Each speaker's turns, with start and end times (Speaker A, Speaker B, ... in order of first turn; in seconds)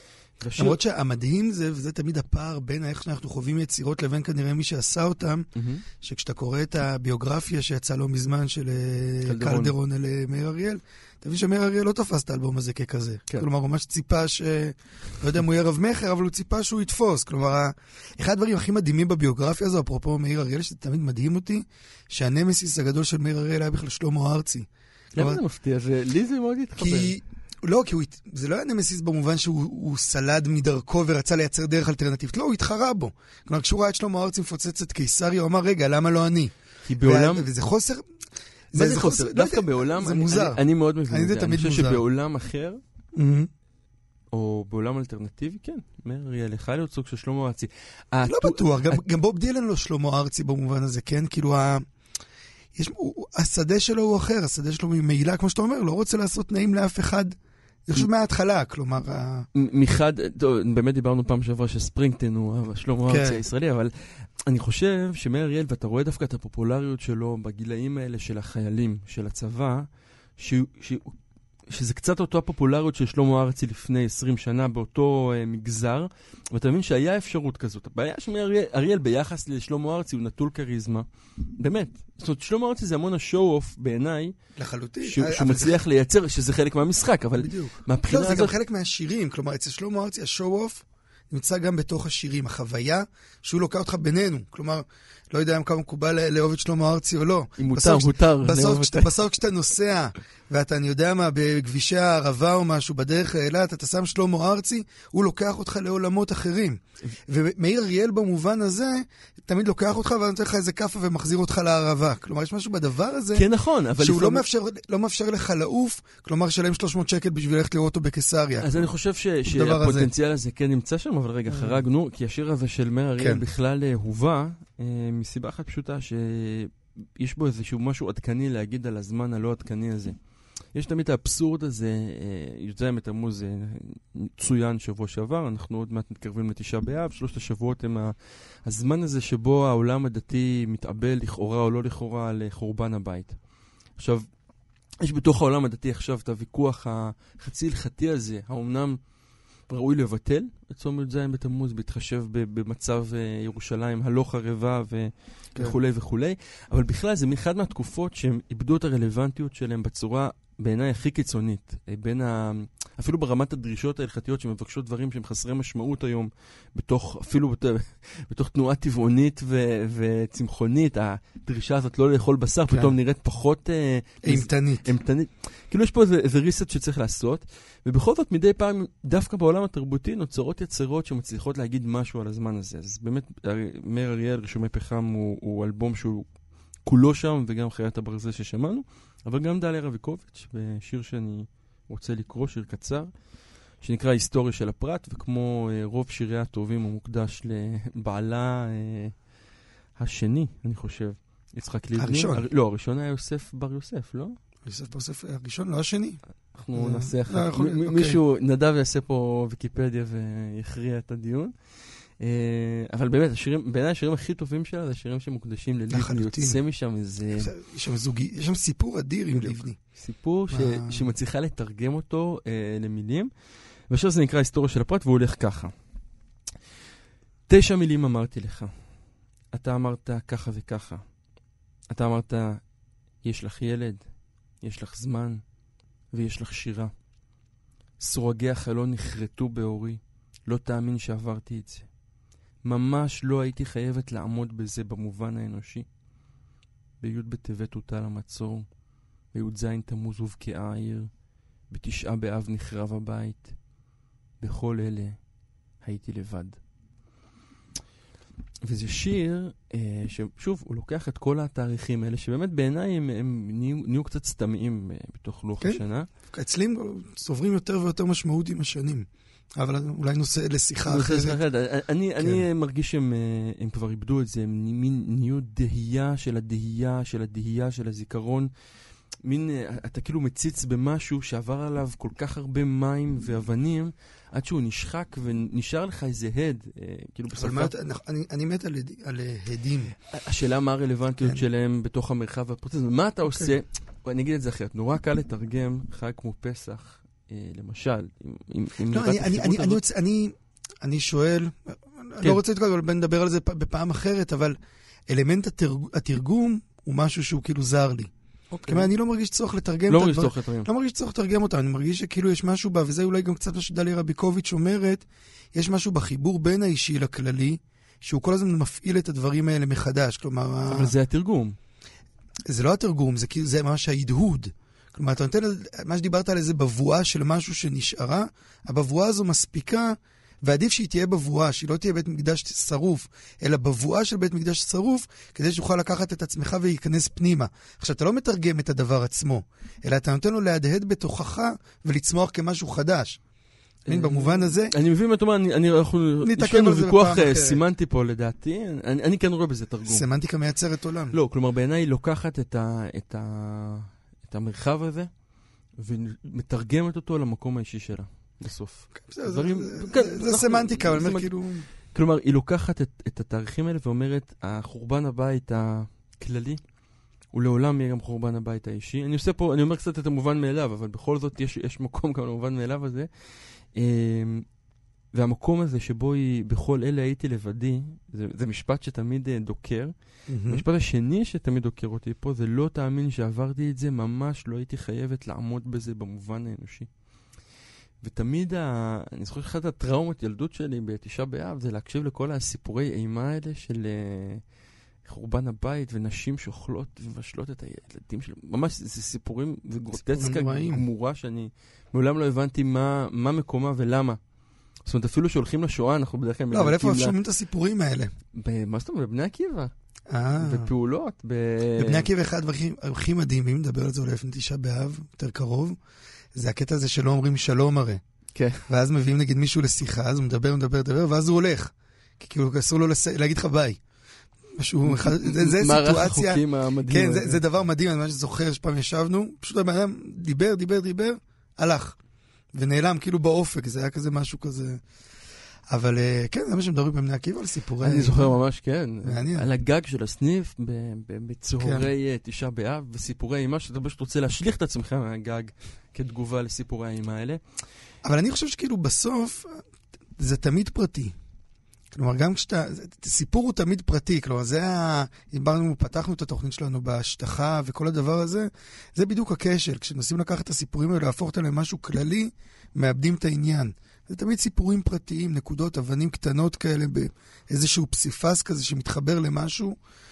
Speaker A: 0.4-0.8, 5.5-5.8, 9.2-9.7, 25.1-27.1, 36.8-37.5, 38.7-42.8, 44.3-49.0, 59.5-69.8, 70.4-71.2, 71.7-84.3, 85.0-88.5, 97.6-99.1, 113.3-114.4, 118.6-130.1, 130.7-138.1, 138.6-143.4, 143.9-144.3, 145.0-149.0, 149.7-186.3, 186.8-193.1, 193.8-199.1, 200.0-204.4, 206.5-211.5, 212.2-217.5, 219.4-223.3, 223.9-225.7, 227.5-228.7, 229.5-231.0, 231.9-232.6, 233.2-235.4, 236.1-236.9, 238.0-241.9, 242.6-245.9, 247.0-248.7, 249.3-251.1, 251.7-253.6, 254.4-255.2, 255.8-256.6, 258.6-266.1, 270.9-278.5, 279.2-287.7, 290.1-299.8, 308.5-308.9, 309.9-310.7, 320.7-321.6, 343.9-350.1, 351.1-355.1, 355.8-366.6, 367.3-374.4, 375.1-386.9, 388.0-394.4, 395.0-404.2, 404.9-407.1, 408.4-409.7, 410.4-412.1, 418.3-418.6, 424.8-427.4, 437.8-447.4
Speaker B: 0.6-5.5, 6.0-25.4, 26.8-38.0, 38.7-42.0, 43.1-43.5, 48.2-51.9, 52.7-59.5, 63.1-63.4, 84.6-85.8, 87.4-113.5, 114.0-118.9, 119.5-120.1, 121.5-121.8, 123.2-123.4, 172.7-172.9, 174.2-174.9, 202.0-202.4, 204.6-206.2, 206.7-208.2, 215.9-216.6, 217.3-219.8, 220.5-221.1, 265.6-271.4, 272.2-272.4, 287.3-289.9, 293.3-293.5, 298.9-308.1, 308.7-320.9, 322.5-343.2, 343.9-344.7, 346.2-347.6, 349.8-351.1, 358.9-361.7, 380.3-380.6, 399.9-400.8, 406.5-408.1, 410.1-410.7, 411.8-415.8, 416.3-418.0, 418.7-423.8, 424.6-432.0, 432.5-434.8, 435.7-438.3, 439.0-439.5, 441.6-441.9, 448.0-449.6, 450.2-451.1, 451.9-469.8